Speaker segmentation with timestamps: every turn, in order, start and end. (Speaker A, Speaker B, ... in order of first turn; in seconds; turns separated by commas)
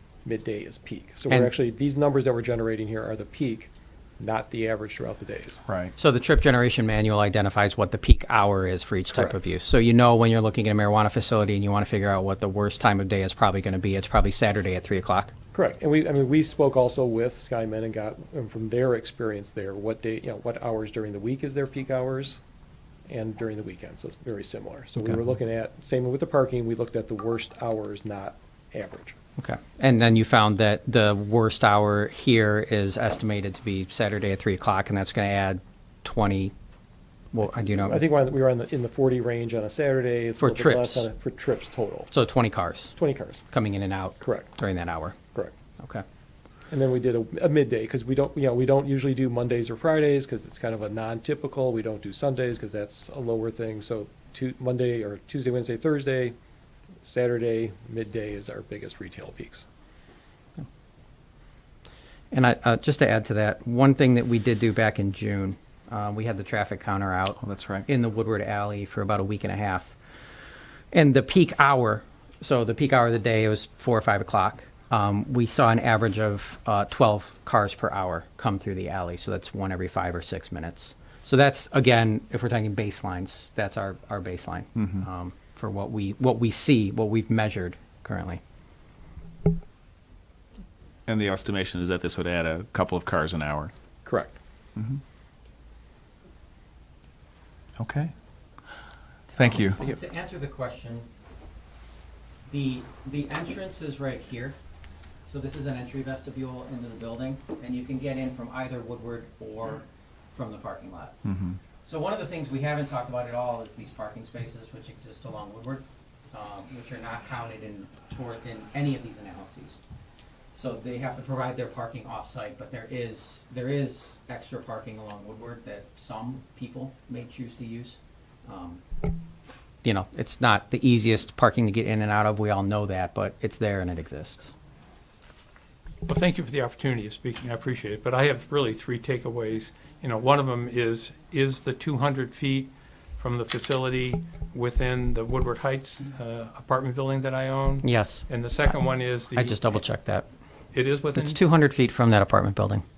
Speaker A: 0.2-5.6, Speaker B: 5.7-5.9, Speaker C: 6.0-15.3, Speaker A: 15.5-22.4, Speaker A: 23.1-29.2, Speaker C: 29.4-36.5, Speaker C: 37.3-38.0, Speaker A: 37.5-42.1, Speaker C: 40.4-41.1, Speaker C: 42.1-43.0, Speaker A: 43.0-43.4, Speaker C: 43.5-45.1, Speaker A: 44.2-44.5, Speaker A: 46.7-56.3, Speaker A: 57.0-59.6, Speaker C: 62.3-69.9, Speaker B: 67.4-67.8, Speaker C: 70.9-88.4, Speaker B: 84.8-85.0, Speaker B: 91.1-93.7, Speaker A: 94.0-94.4, Speaker B: 97.8-98.1, Speaker B: 99.3-99.8, Speaker C: 99.4-101.1, Speaker C: 102.5-104.6, Speaker C: 105.2-111.2, Speaker B: 111.2-111.6, Speaker C: 111.8-119.8, Speaker C: 120.5-128.8, Speaker C: 129.8-134.5, Speaker D: 136.0-149.7, Speaker C: 147.8-148.7, Speaker C: 149.3-150.2, Speaker D: 150.7-151.4, Speaker C: 151.1-152.8